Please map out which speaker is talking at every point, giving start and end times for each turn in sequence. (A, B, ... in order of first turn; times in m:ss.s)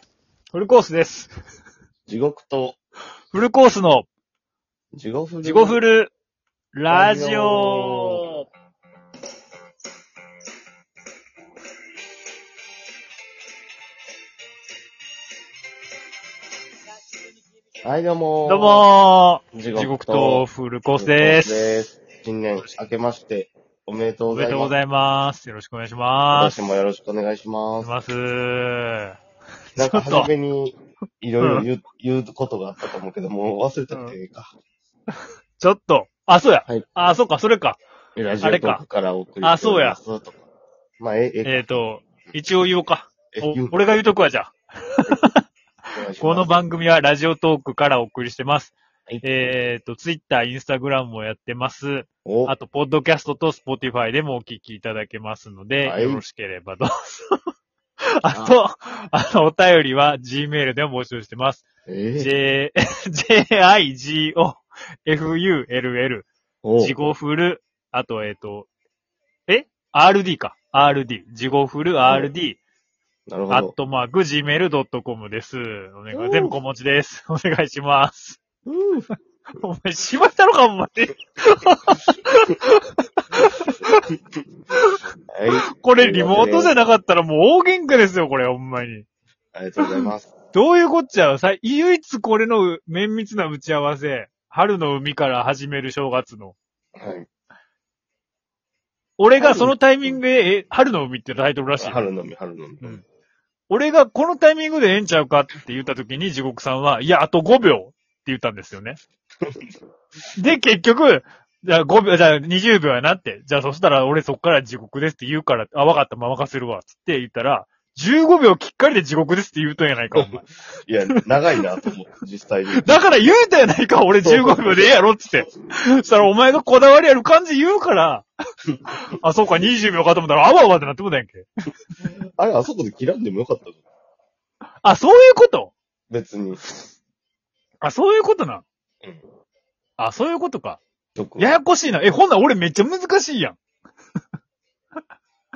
0:00.5-0:01.3 A
0:02.1-0:02.8 B
0:03.3-0:04.1 A
0:04.9-0:05.8 B
0:05.4-0:06.1 A
0:06.7-0:08.3 A
0:06.9-0:08.3 B
0:17.8-0:18.9 B
0:18.4-0:21.9 A
0:19.5-0:24.8 B
0:24.3-0:26.7 A
0:26.3-0:27.9 B
0:27.8-0:29.2 A
0:29.8-0:30.3 A
0:29.8-0:34.5 B
0:31.4-0:31.7 A
0:33.9-0:34.2 A
0:35.6-0:37.8 A
0:36.7-0:37.1 B
0:38.2-0:40.4 B
0:38.4-0:38.8 A
0:39.4-0:40.0 A
0:41.0-0:42.3 B
0:41.4-0:45.4 A
0:43.3-0:44.0 B
0:46.0-0:46.6 B
0:46.2-0:57.4 A
0:49.1-0:49.4 B
0:52.2-0:52.6 B
0:55.8-0:56.2 B
0:58.2-1:01.6 A
1:01.9-1:02.3 B
1:02.2-1:06.3 A
1:06.6-1:07.0 B
1:06.8-1:08.7 A
1:09.5-1:12.6 A
1:12.0-1:12.3 B
1:13.3-1:13.7 B
1:13.5-1:18.4 A
1:16.1-1:16.6 B
1:18.7-1:19.1 B
1:19.6-1:24.1 A
1:23.6-1:23.9 B
1:25.3-1:26.8 B
1:25.8-1:29.0 A
1:29.5-1:30.3 B
1:29.8-1:36.6 A
1:37.0-1:37.3 B
1:39.2-1:42.1 A
1:39.4-1:40.2 B
1:41.8-1:43.0 B
1:43.7-1:49.0 A
1:49.4-1:49.7 B
1:50.4-2:00.5 A
2:00.2-2:03.1 B
2:02.8-2:08.3 A
2:04.2-2:05.0 B
2:08.9-2:11.5 A
2:12.4-2:13.8 B
2:14.8-2:15.7 A
2:16.1-2:16.6 B
2:17.8-2:18.6 A
2:20.0-2:20.8 A
2:21.2-2:21.6 B
2:21.4-2:23.6 A